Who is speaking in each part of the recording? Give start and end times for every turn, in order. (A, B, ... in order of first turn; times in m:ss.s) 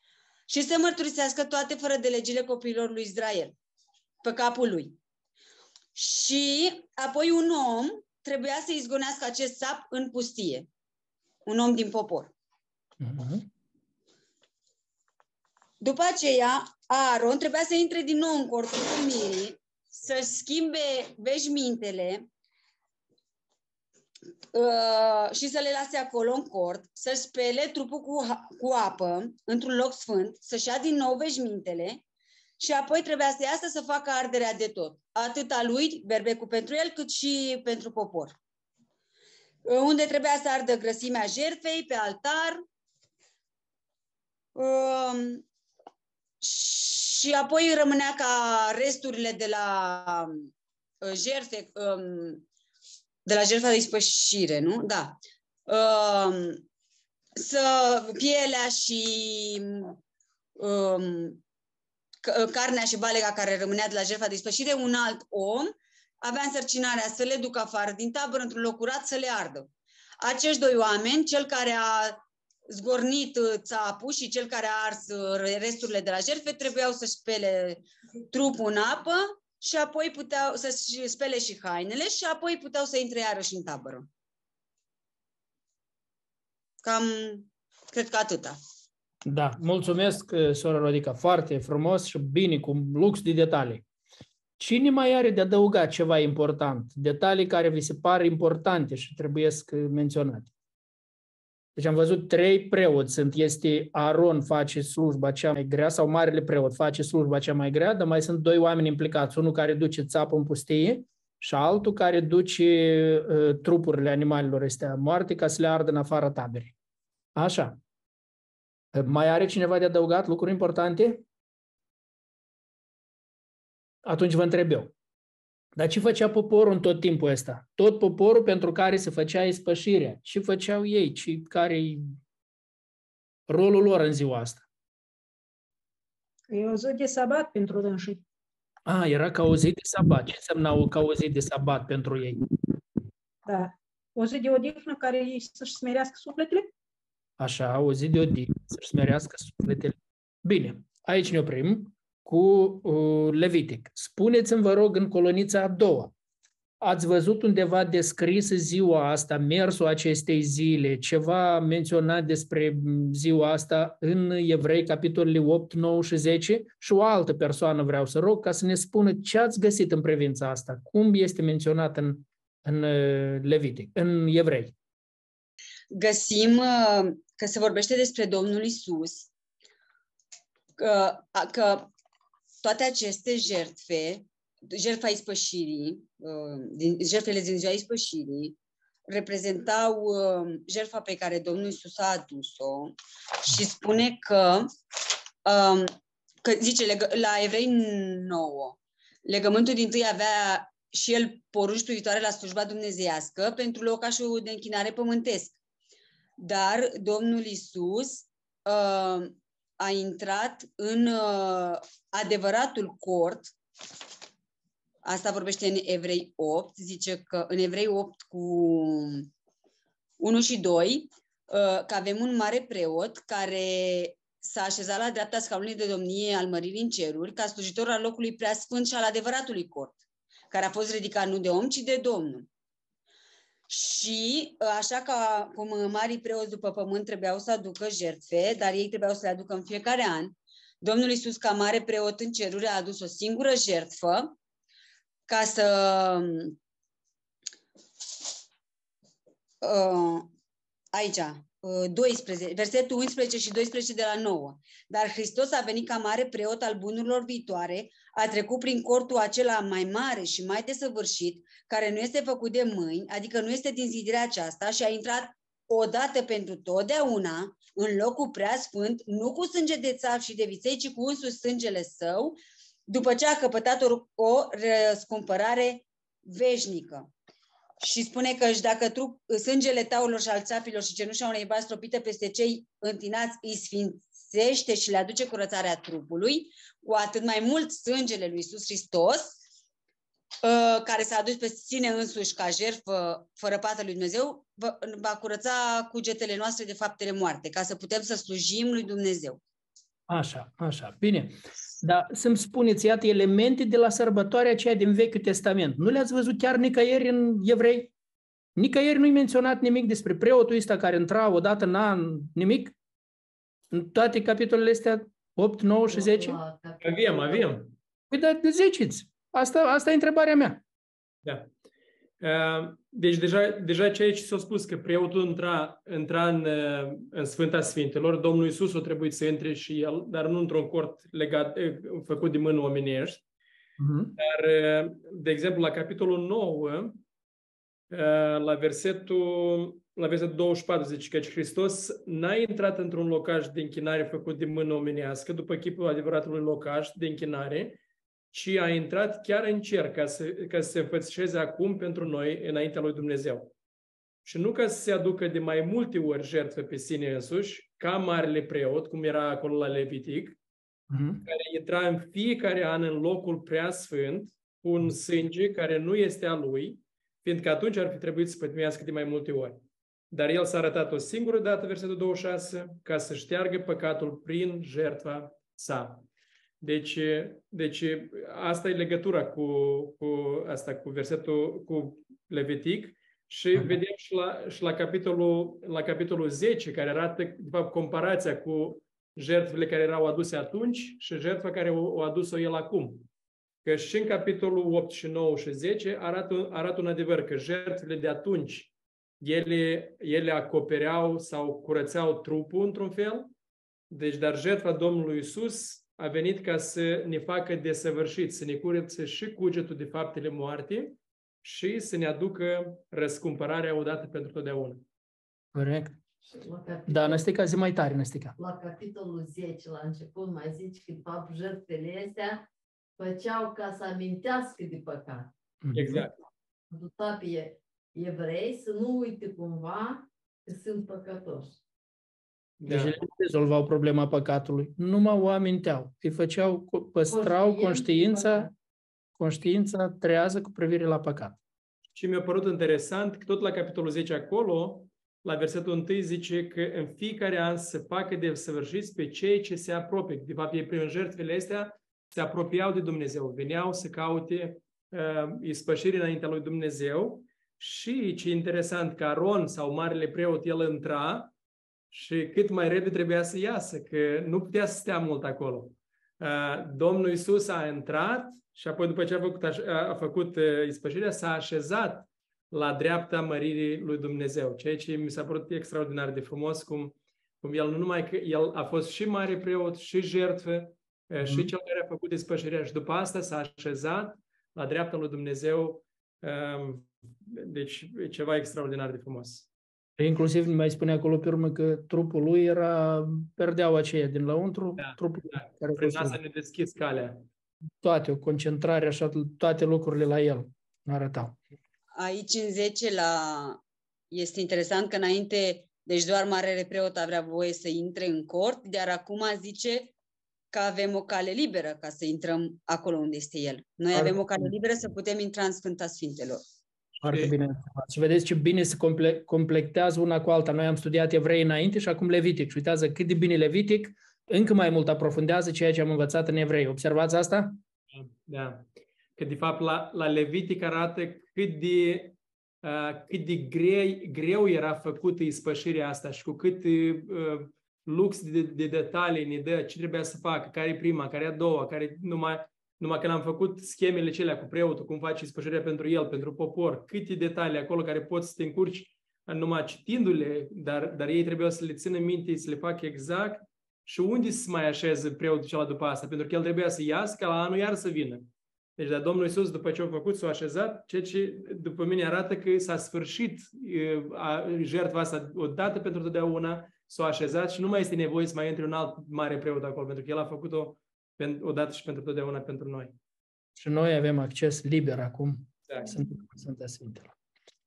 0:00.5-0:03.5 A
0:04.2-0:05.0 A
0:06.0-0:10.7 A
0:11.5-0:12.3 A
0:13.0-0:13.5 B
0:15.8-0:22.3 A
0:24.5-0:32.0 A
0:32.6-0:38.4 A
0:39.6-0:42.6 A
0:44.5-0:45.4 A
0:46.4-0:50.4 A
0:51.0-0:52.4 A
0:53.2-0:56.6 A
0:57.4-1:00.0 A
1:00.6-1:01.4 A
1:02.2-1:09.7 A
1:10.2-1:24.1 A
1:26.8-1:28.6 A
1:29.2-1:33.8 B
1:34.6-1:40.5 B
1:41.8-1:56.7 B
1:57.4-1:57.8 B
1:58.9-2:01.2 B
2:04.0-2:04.9 B
2:05.8-2:12.1 B
2:13.5-2:14.6 B
2:16.5-2:18.2 C
2:18.9-2:22.5 B
2:23.4-2:26.7 C
2:27.4-2:36.1 B
2:36.8-2:54.7 B
2:55.9-2:59.3 A
3:00.8-3:01.9 A
3:02.6-3:08.6 A
3:09.1-3:14.7 A
3:15.4-3:25.6 A
3:26.4-3:33.5 A
3:35.0-3:39.3 A
3:40.2-3:50.0 A
3:50.5-3:52.5 A
3:53.7-4:04.4 A
4:05.3-4:06.6 A
4:09.6-4:10.3 A
4:10.9-4:37.1 A
4:37.8-4:49.4 A
4:50.4-4:59.4 A
5:00.1-5:07.9 B
5:08.6-5:12.7 B
5:13.7-5:16.4 B
5:15.9-5:17.6 D
5:16.8-5:17.7 E
5:18.1-5:20.6 B
5:22.2-5:33.2 E
5:33.8-5:34.1 B
5:34.2-5:37.0 E
5:37.9-5:47.8 E
5:48.3-5:53.5 E
5:54.2-6:00.4 E
6:00.9-6:01.2 B
6:01.2-6:09.6 E
6:10.1-6:16.0 E
6:16.6-6:33.1 E
6:33.6-6:43.3 E
6:43.9-6:54.8 E
6:55.6-6:56.0 B
6:56.3-6:57.2 D
6:56.9-6:58.4 B
6:58.4-7:02.4 D
7:03.0-7:05.3 D
7:05.6-7:06.1 B
7:05.7-7:06.2 E
7:06.7-7:11.6 D
7:12.6-7:12.9 E
7:12.7-7:18.5 B
7:17.1-7:18.5 D
7:19.2-7:21.4 B
7:22.0-7:41.3 E
7:41.9-8:09.5 E
8:01.2-8:01.5 B
8:10.0-8:16.2 B
8:14.8-8:17.2 E
8:17.8-8:21.4 B
8:22.0-8:23.6 A
8:24.1-8:29.9 A
8:30.5-8:36.4 A
8:33.9-8:34.5 B
8:37.0-8:47.6 B
8:37.0-8:37.3 E
8:47.9-8:48.6 E
8:49.2-9:32.9 E
9:33.6-9:37.1 B